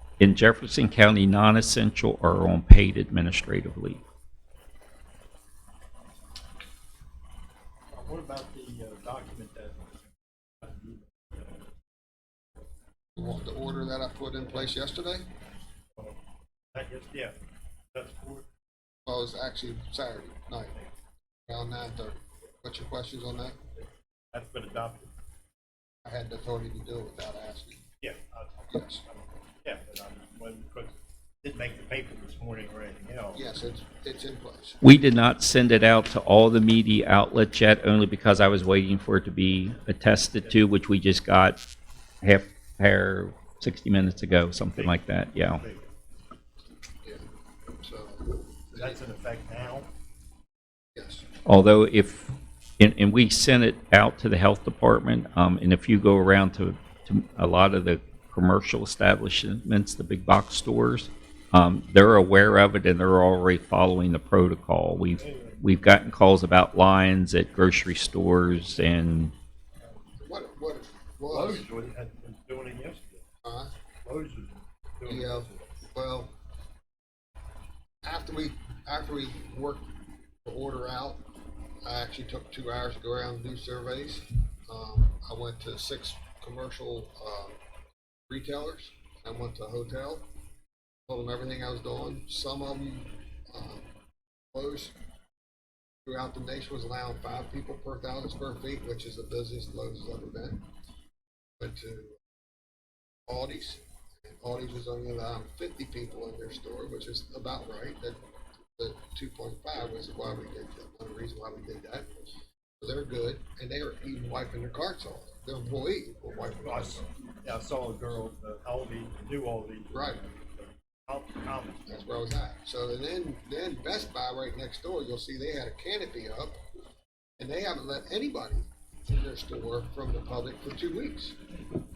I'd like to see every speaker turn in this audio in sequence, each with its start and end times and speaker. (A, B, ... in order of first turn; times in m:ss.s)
0:00.2-0:04.0 A
0:07.9-0:10.1 B
0:10.6-0:11.6 B
0:13.2-0:15.2 C
0:15.9-0:16.2 B
0:16.7-0:17.3 B
0:17.9-0:18.4 B
0:19.0-0:20.7 C
0:21.5-0:23.6 C
0:23.8-0:25.1 B
0:26.0-0:27.8 C
0:28.0-0:33.4 B
0:28.7-0:29.0 C
0:33.3-0:34.8 C
0:34.8-0:41.6 A
0:42.2-0:45.6 A
0:44.7-0:45.8 B
0:47.8-0:49.0 C
0:48.7-0:49.9 B
0:50.9-0:51.2 C
0:51.4-1:09.3 A
1:05.2-1:05.6 B
1:10.2-1:11.6 C
1:11.3-1:13.2 B
1:13.4-1:13.7 C
1:14.0-1:15.7 B
1:15.0-1:16.3 C
1:18.0-1:19.9 C
1:20.4-1:21.2 C
1:21.8-1:27.6 C
1:28.3-1:30.2 C
1:31.1-1:33.9 C
1:34.5-1:34.9 C
1:36.0-1:40.6 C
1:41.6-1:42.2 C
1:43.3-1:48.2 C
1:48.8-1:52.1 C
1:52.8-1:57.0 C
1:56.6-2:02.1 B
1:59.9-2:00.2 C
2:01.9-2:06.6 C
2:07.4-2:11.4 C